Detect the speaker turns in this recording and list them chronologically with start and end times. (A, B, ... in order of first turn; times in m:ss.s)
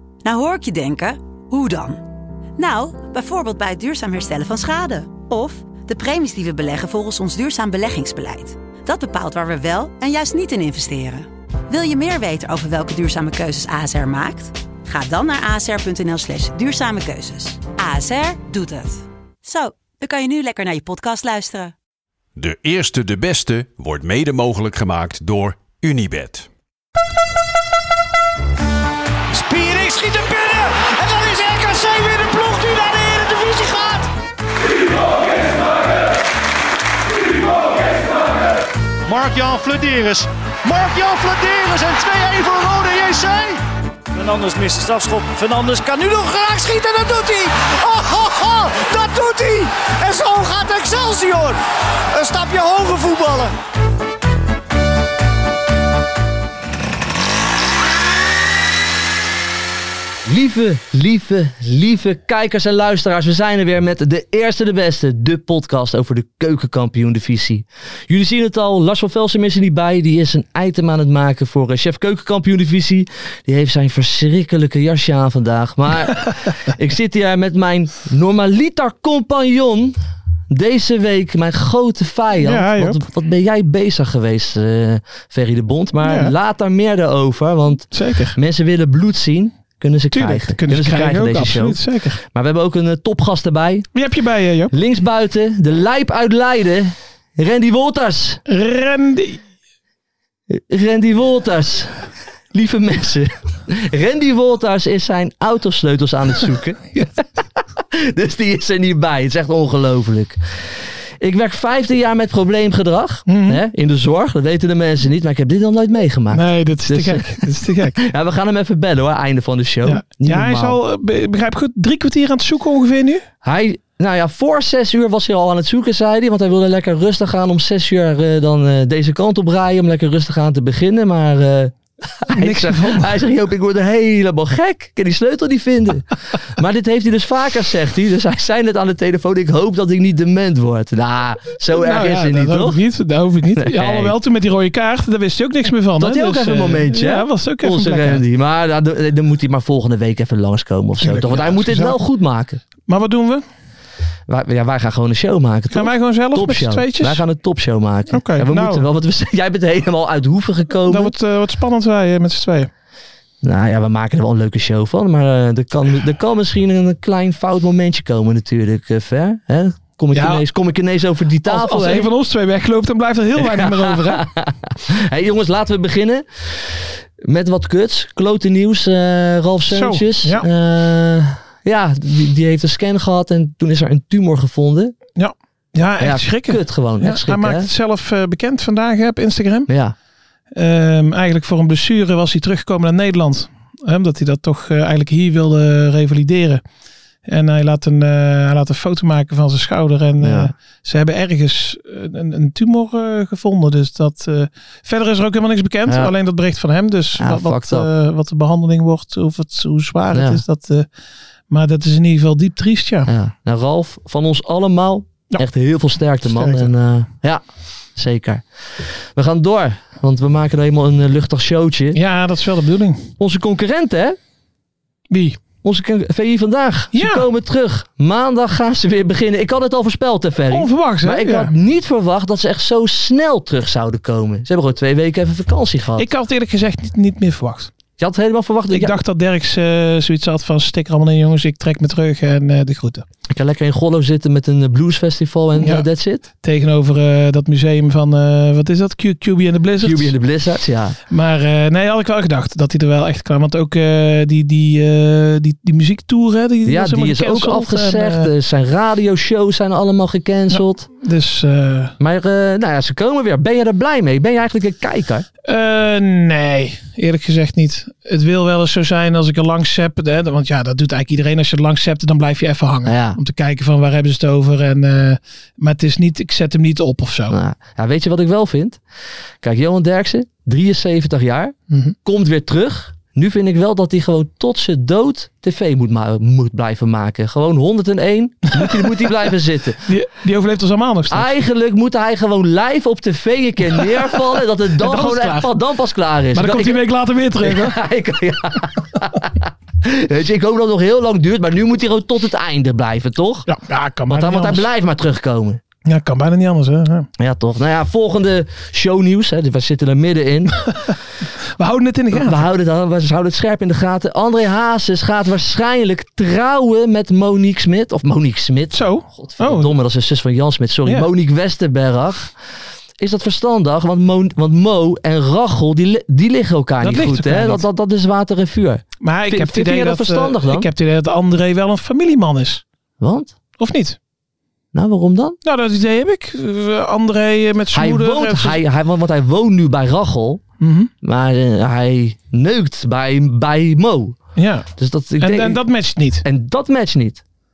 0:00.2-0:02.0 A
0:02.6-0:21.7 A
0:22.4-0:26.5 B
0:29.3-0:34.1 C
0:39.1-0:43.6 C
0:44.1-0:51.6 C
0:52.1-0:53.6 C
1:00.2-1:20.0 D
1:20.5-1:33.9 D
1:22.4-1:23.0 E
1:26.0-1:26.3 E
1:27.9-1:28.4 E
1:30.1-1:32.2 E
1:33.9-1:34.7 E
1:34.7-1:38.4 D
1:38.5-1:39.4 E
1:40.5-1:41.9 D
1:42.5-1:50.4 D
1:51.2-2:00.8 D
1:53.3-1:53.6 E
1:56.3-1:58.0 E
1:59.8-2:03.2 E
2:03.4-2:22.8 D
2:12.3-2:13.2 E
2:21.7-2:28.2 E
2:23.6-2:24.2 D
2:26.0-2:32.6 D
2:31.0-2:32.0 E
2:32.9-2:33.4 E
2:34.3-2:41.1 D
2:35.7-2:37.2 E
2:38.1-2:38.8 E
2:40.9-2:42.7 E
2:43.4-2:52.1 D
2:50.1-2:50.4 E
2:51.5-2:54.2 E
2:53.4-3:05.0 D
2:59.7-3:00.5 E
3:05.2-3:09.7 E
3:06.0-3:07.7 D
3:09.7-3:10.0 D
3:10.5-3:16.6 E
3:17.3-3:30.9 E
3:20.2-3:20.5 D
3:25.9-3:26.1 D
3:27.2-3:27.9 D
3:30.1-3:30.4 D
3:31.5-3:33.1 E
3:33.1-3:37.4 D
3:36.2-3:36.7 E
3:38.0-3:38.4 D
3:39.2-3:42.0 D
3:42.0-3:43.1 E
3:43.2-3:44.2 D
3:45.1-3:45.4 E
3:45.6-3:56.1 D
3:46.9-3:47.2 E
3:50.5-3:51.5 E
3:56.0-3:57.7 E
3:58.0-3:59.0 D
3:58.7-4:03.0 E
4:03.3-4:06.2 D
4:05.6-4:05.9 E
4:06.4-4:10.1 E
4:09.8-4:11.0 D
4:11.1-4:18.3 E
4:16.7-4:20.9 D
4:20.5-4:21.9 E
4:22.0-4:25.3 D
4:25.5-4:37.4 E
4:32.9-4:33.2 D
4:37.3-4:38.8 D
4:39.4-4:49.8 D
4:41.7-4:42.0 E
4:49.9-4:51.3 E
4:51.1-5:03.5 D
4:54.8-4:55.6 E
4:56.3-4:57.8 E
5:03.5-5:04.7 E
5:04.1-5:05.6 D
5:05.9-5:07.1 E
5:07.2-5:10.6 D
5:11.6-5:12.4 E
5:12.1-5:22.3 D
5:18.7-5:19.7 E
5:23.0-5:30.7 D
5:26.8-5:27.6 E
5:29.0-5:32.6 E
5:33.0-5:33.4 D
5:33.6-5:34.0 E
5:34.7-5:35.4 D
5:35.4-5:38.6 E
5:37.7-5:40.4 D
5:40.6-5:40.9 E
5:41.0-5:44.2 D
5:44.4-5:44.7 E
5:44.8-5:45.6 D
5:45.2-5:46.2 E
5:46.2-5:47.2 D